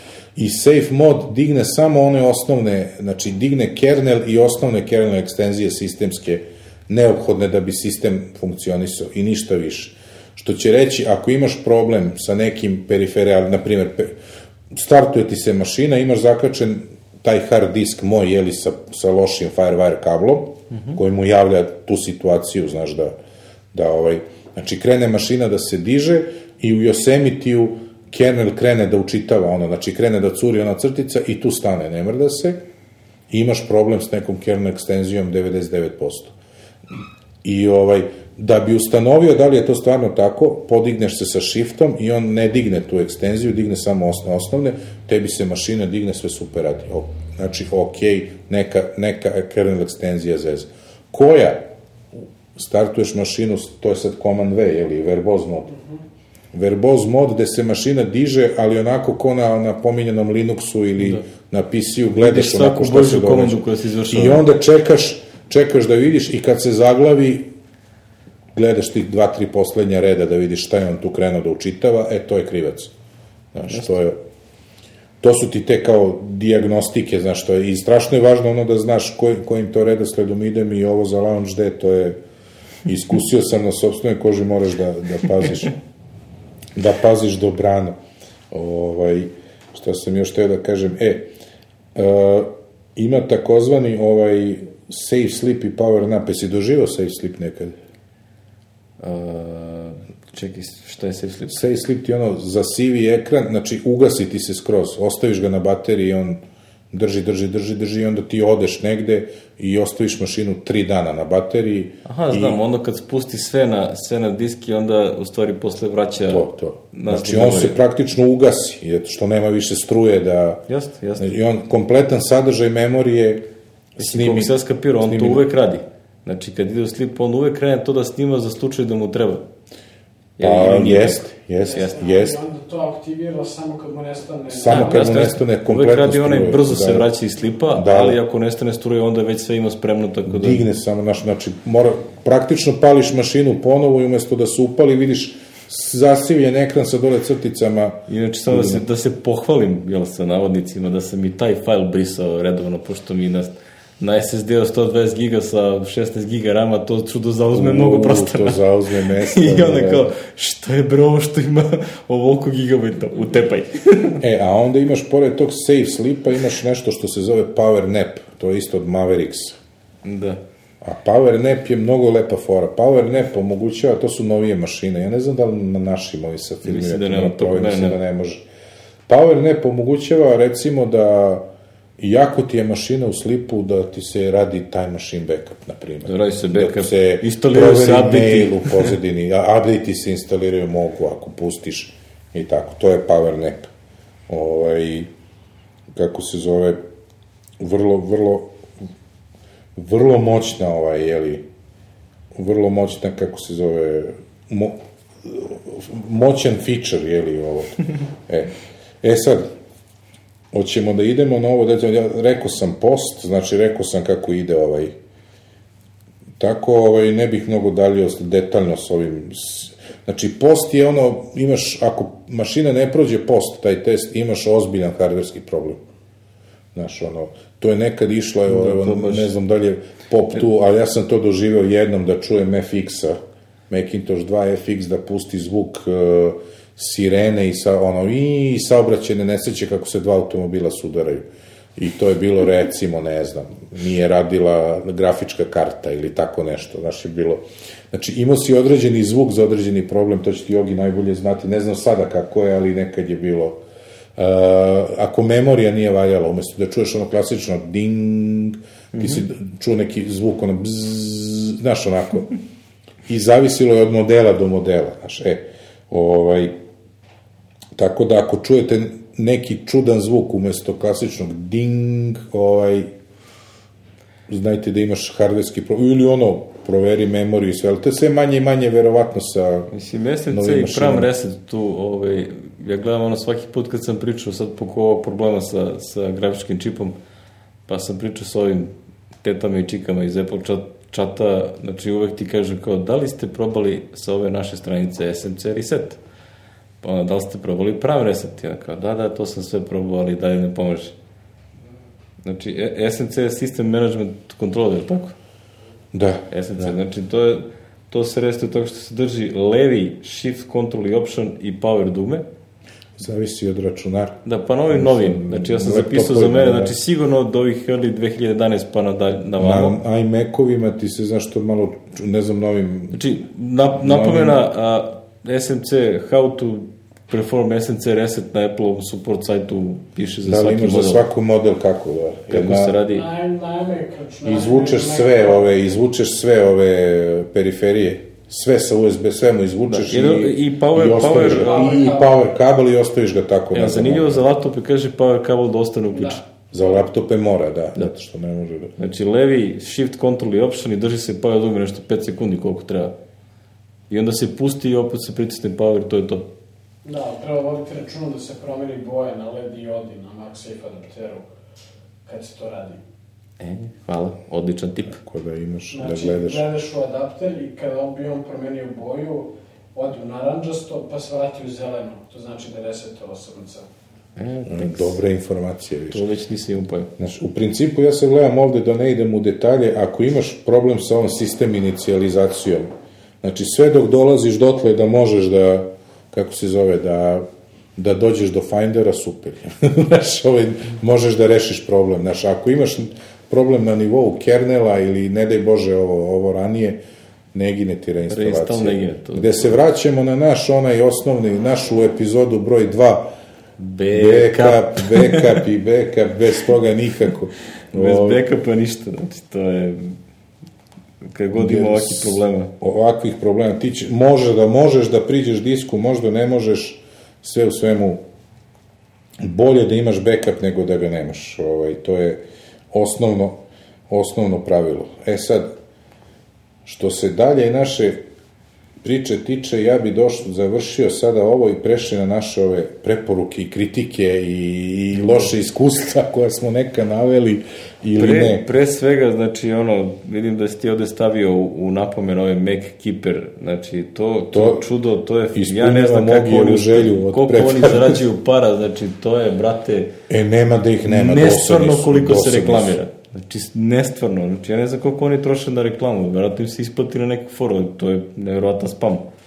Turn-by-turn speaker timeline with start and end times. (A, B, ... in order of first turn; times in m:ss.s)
0:00.4-0:14.2 A
0:14.7-0:23.2 A
0:20.7-0:21.0 B
0:23.7-0:32.6 A
0:33.3-0:36.3 A
0:37.4-0:51.7 A
0:52.5-0:55.7 A
0:56.5-1:07.5 A
1:01.0-1:01.3 B
1:02.1-1:04.4 B
1:08.6-1:12.9 A
1:13.5-1:14.2 A
1:15.2-1:22.2 A
1:22.8-1:25.8 A
1:26.8-1:28.0 A
1:28.5-1:31.3 A
1:32.0-1:37.8 A
1:39.0-1:41.7 B
1:41.5-1:46.4 A
1:46.9-1:52.6 A
1:52.1-1:57.8 B
1:56.3-2:00.6 A
2:00.7-2:01.4 B
2:01.2-2:05.4 A
2:04.0-2:09.4 B
2:10.4-2:11.9 B
2:10.4-2:12.4 A
2:11.6-2:15.2 C
2:14.5-2:17.1 A
2:14.7-2:20.6 B
2:17.7-2:18.2 A
2:20.3-2:28.9 A
2:28.1-2:38.6 B
2:37.5-2:40.1 A
2:39.2-2:44.2 B
2:44.2-2:49.6 A
2:50.0-2:50.4 B
2:50.8-2:58.4 A
2:56.6-2:58.0 B
2:59.1-3:01.5 A
3:02.0-3:13.7 A
3:06.1-3:08.9 B
3:14.3-3:15.1 A
3:15.9-3:16.8 A
3:17.6-3:18.6 A
3:19.8-3:21.5 A
3:22.4-3:29.5 A
3:30.5-3:35.0 A
3:36.4-3:45.8 A
3:46.7-3:53.2 A
3:48.5-3:49.3 B
3:53.7-4:13.6 A
4:14.2-4:22.3 A
4:18.9-4:19.2 B
4:23.1-4:26.6 A
4:27.8-4:32.9 A
4:34.3-4:39.7 A
4:39.7-4:47.0 B
4:40.3-4:41.1 A
4:47.7-4:48.7 B
4:49.2-4:56.0 B
4:56.8-5:01.0 B
5:02.2-5:05.2 B
5:05.9-5:06.7 A
5:06.3-5:12.2 B
5:13.0-5:16.8 A
5:14.2-5:19.8 B
5:19.4-5:23.1 A
5:22.9-5:31.0 B
5:23.7-5:24.4 A
5:30.2-5:32.8 A
5:32.3-5:33.1 B
5:32.9-5:35.4 C
5:34.2-5:44.3 A
5:39.7-5:41.9 B
5:41.0-5:42.2 C
5:43.5-5:46.2 B
5:45.9-5:46.2 C
5:46.5-5:48.8 A
5:48.8-5:52.9 B
5:53.9-5:56.3 B
5:56.8-6:01.2 C
6:02.1-6:02.8 C
6:03.4-6:05.0 B
6:04.9-6:06.5 A
6:05.7-6:13.7 C
6:14.2-6:15.0 B
6:14.5-6:16.0 A
6:15.9-6:16.9 B
6:17.0-6:22.7 A
6:23.2-6:27.3 A
6:27.8-6:36.8 A
6:37.3-6:43.1 A
6:38.1-6:39.6 B
6:43.6-6:45.4 B
6:43.9-6:48.2 A
6:47.7-6:50.0 B
6:51.0-6:52.5 B
6:51.3-6:58.0 A
6:59.2-7:05.6 A
7:06.6-7:08.0 A
7:08.8-7:18.4 A
7:18.0-7:29.9 B
7:24.3-7:24.7 A
7:25.3-7:28.0 A
7:30.1-7:32.8 A
7:30.8-7:39.1 B